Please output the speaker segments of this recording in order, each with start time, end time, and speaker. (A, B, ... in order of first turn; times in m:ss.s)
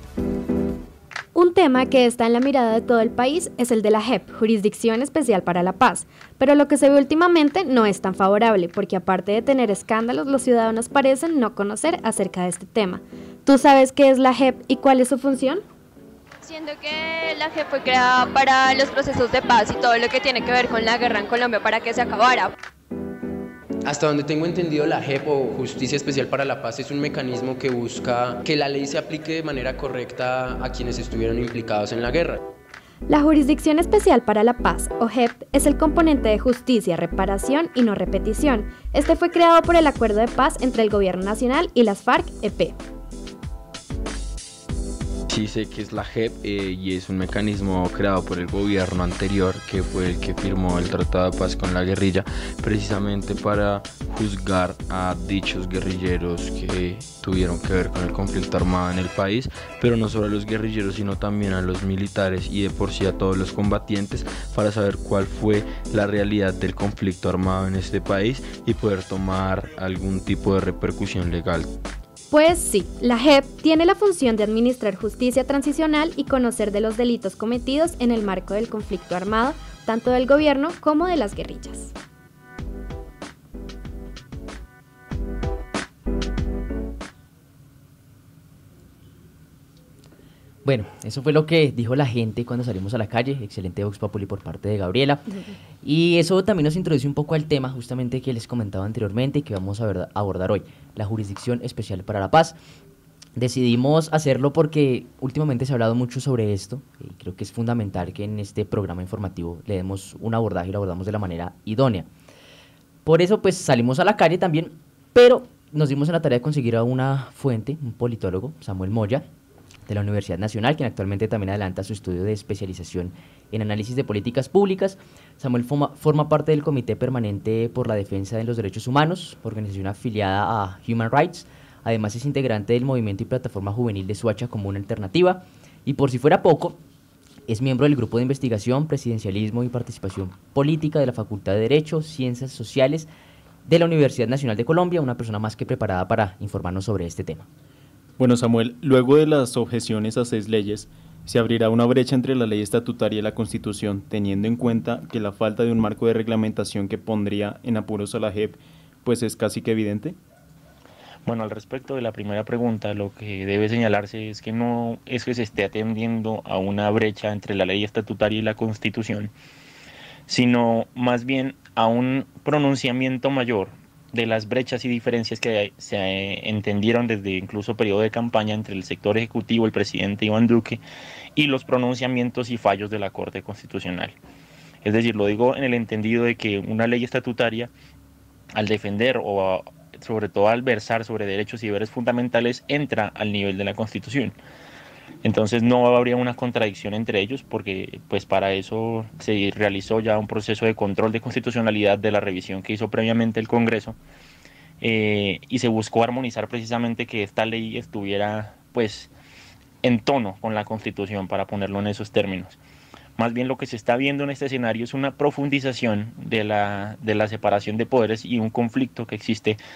0:01.4-0:15.6 A
0:16.4-0:22.5 B
0:23.8-0:32.4 C
0:33.1-0:42.8 A
0:45.3-1:11.7 D
1:12.3-1:21.9 A
1:30.6-1:42.6 E
1:43.4-1:52.1 E
1:53.0-1:59.3 E
1:59.9-2:16.8 E
2:17.5-2:23.1 E
2:23.6-2:27.5 E
2:28.2-2:40.2 F
2:41.2-2:49.3 G
2:50.3-3:00.8 G
3:01.4-3:04.2 G
3:04.8-3:07.7 G
3:08.6-3:14.4 G
3:15.2-3:24.0 G
3:24.8-3:29.1 G
3:29.8-3:32.6 G
3:33.2-3:39.6 G